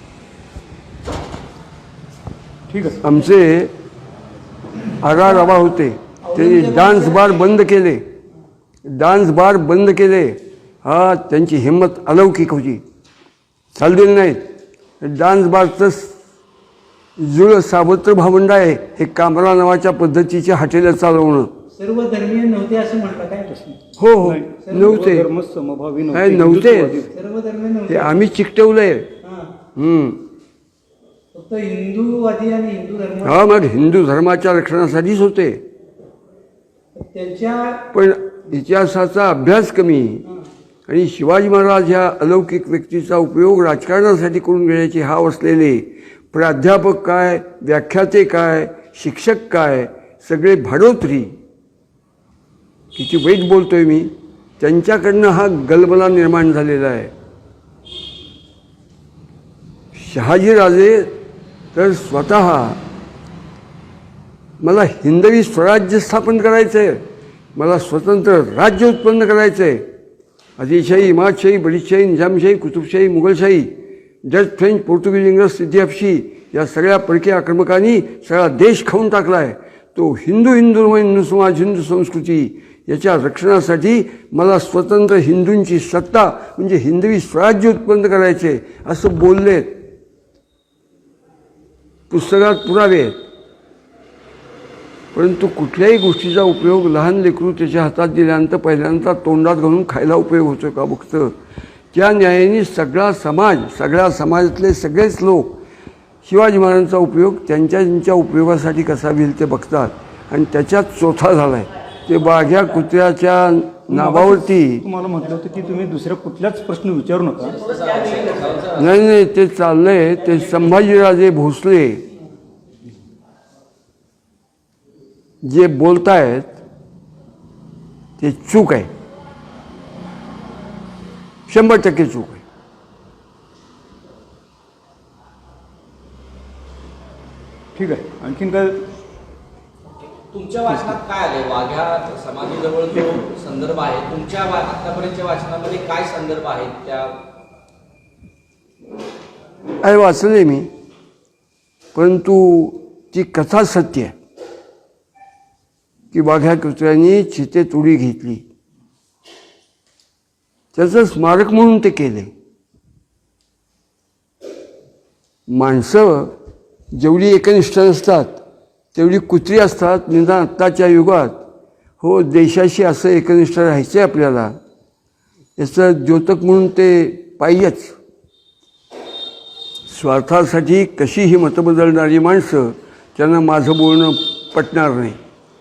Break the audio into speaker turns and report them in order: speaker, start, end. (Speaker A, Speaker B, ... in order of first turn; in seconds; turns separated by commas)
Speaker A: 2.7-3.0, Speaker B: 3.0-3.7, Speaker B: 5.0-8.0, Speaker C: 5.3-5.6, Speaker C: 6.2-7.3, Speaker B: 8.8-12.8, Speaker B: 13.7-14.4, Speaker B: 15.0-16.1, Speaker B: 17.2-21.5, Speaker C: 21.7-23.7, Speaker A: 23.7-27.1, Speaker B: 24.0-25.3, Speaker C: 24.6-24.9, Speaker B: 26.1-27.0, Speaker C: 27.1-28.2, Speaker B: 27.9-29.1, Speaker C: 29.2-29.6, Speaker B: 29.7-30.2, Speaker C: 31.3-33.6, Speaker B: 33.2-35.6, Speaker C: 37.0-37.8, Speaker B: 37.9-40.2, Speaker B: 40.9-51.3, Speaker B: 52.9-57.1, Speaker B: 59.9-61.1, Speaker B: 61.7-62.8, Speaker B: 64.6-67.0, Speaker B: 67.5-69.9, Speaker B: 70.6-89.8, Speaker B: 92.1-93.1, Speaker B: 95.1-101.3, Speaker B: 101.9-105.6, Speaker B: 106.2-114.8, Speaker A: 113.9-117.6, Speaker D: 117.6-118.8, Speaker B: 118.7-122.0, Speaker B: 125.4-126.6, Speaker B: 128.2-128.9, Speaker B: 131.5-132.4, Speaker A: 137.8-138.9, Speaker D: 140.3-147.2, Speaker B: 149.8-150.7, Speaker B: 151.9-154.2, Speaker B: 156.1-158.4, Speaker B: 160.7-162.3, Speaker B: 165.5-166.3, Speaker B: 166.9-168.4, Speaker B: 168.9-171.4, Speaker B: 172.0-174.6, Speaker B: 175.6-177.9, Speaker B: 179.9-185.2